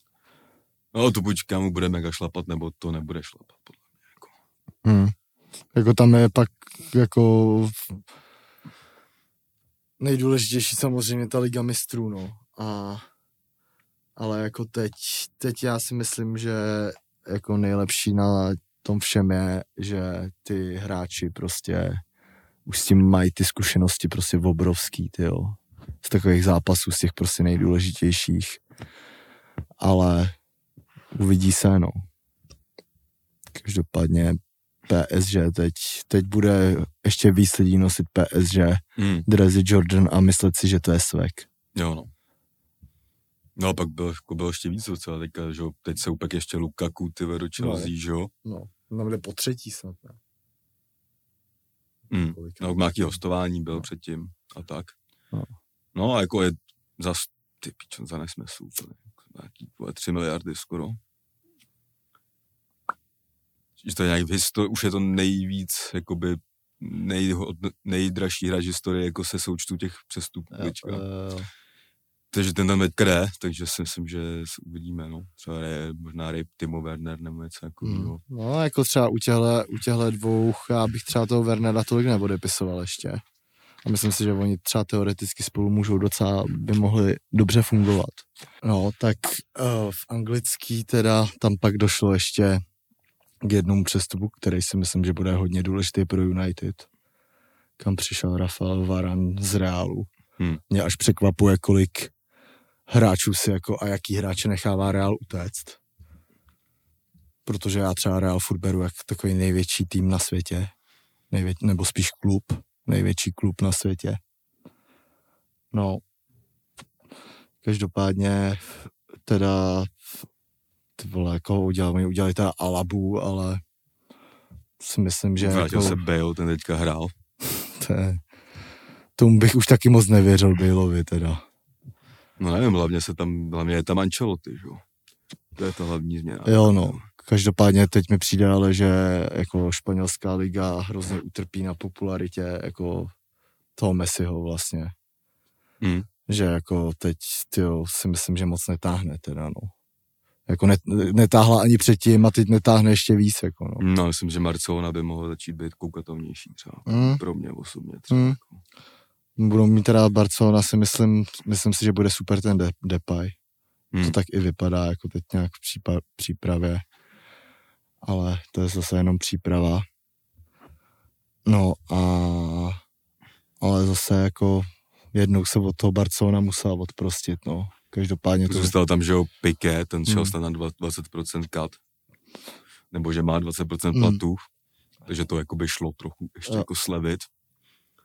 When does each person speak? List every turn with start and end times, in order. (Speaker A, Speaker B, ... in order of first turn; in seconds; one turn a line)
Speaker A: 0.9-4.3
Speaker B: 4.8-5.1
Speaker B: 5.7-7.9
Speaker B: 10.0-13.0
Speaker B: 14.2-22.0
Speaker B: 22.6-28.6
Speaker B: 29.8-30.4
Speaker B: 31.1-32.0
Speaker B: 33.5-41.5
Speaker A: 39.0-39.2
Speaker A: 41.7-42.1
Speaker A: 43.6-48.3
Speaker B: 47.6-47.9
Speaker B: 48.4-50.2
Speaker A: 52.1-55.0
Speaker B: 52.4-53.1
Speaker A: 55.9-61.0
Speaker A: 63.8-71.0
Speaker B: 70.5-71.5
Speaker A: 72.3-78.2
Speaker B: 77.8-83.2
Speaker B: 83.8-92.6
Speaker B: 93.4-96.9
Speaker B: 97.8-100.1
Speaker B: 100.7-102.1
Speaker B: 102.9-105.8
Speaker B: 107.4-110.7
Speaker B: 111.3-114.2
Speaker B: 115.7-116.0
Speaker B: 117.6-119.9
Speaker B: 121.0-123.6
Speaker B: 124.8-126.0
Speaker A: 125.4-127.1
Speaker B: 127.5-128.2
Speaker B: 129.2-131.4
Speaker A: 132.4-134.8
Speaker A: 135.6-137.1
Speaker B: 136.4-143.1
Speaker B: 143.8-144.9
Speaker A: 145.8-146.1
Speaker B: 146.3-149.7
Speaker B: 150.5-153.8
Speaker A: 153.8-158.6
Speaker B: 156.9-157.2
Speaker B: 158.1-158.4
Speaker B: 159.4-163.3
Speaker B: 164.0-166.8
Speaker B: 168.0-169.8
Speaker B: 171.4-172.8
Speaker B: 173.6-178.7
Speaker A: 178.4-181.8
Speaker B: 180.1-180.3
Speaker A: 182.9-184.4
Speaker B: 183.9-184.2
Speaker A: 185.1-187.3